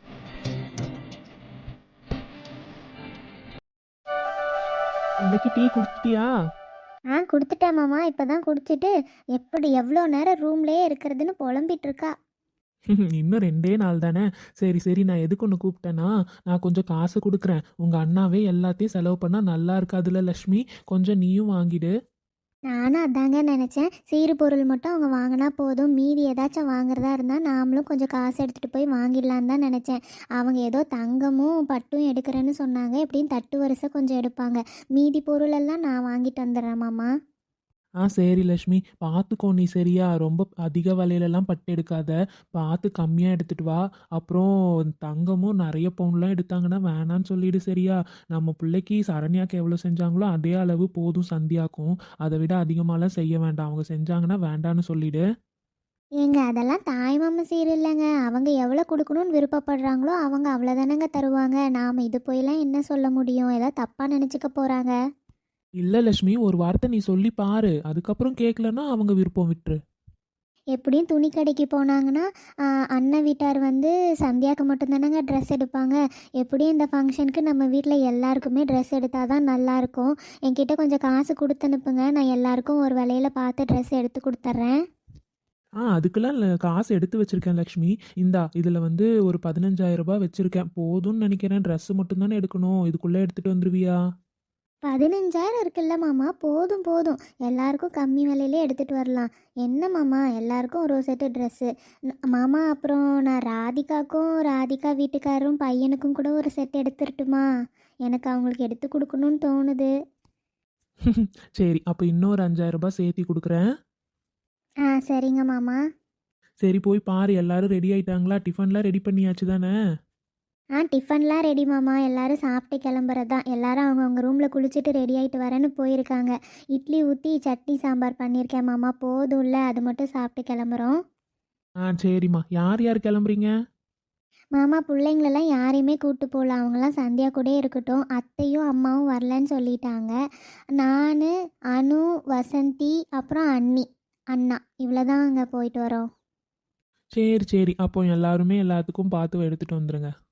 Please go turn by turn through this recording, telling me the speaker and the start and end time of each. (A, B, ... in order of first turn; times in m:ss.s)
0:05.2-0:06.3 A
0:07.1-0:12.1 B
0:12.9-0:21.9 A
0:22.7-0:37.1 B
0:38.0-0:44.5 A
0:45.0-0:55.2 A
0:56.2-1:05.0 B
1:05.8-1:09.8 A
1:10.7-1:24.8 B
1:25.8-1:34.0 A
1:34.9-1:41.7 B
1:42.3-1:47.5 B
1:48.0-1:49.9 B
1:51.1-1:53.6 A
1:54.8-1:55.8 B
1:56.6-1:59.7 A
2:00.8-2:11.0 B
2:11.8-2:13.5 A
2:14.6-2:20.2 B
2:20.8-2:26.1 B
2:27.2-2:30.1 A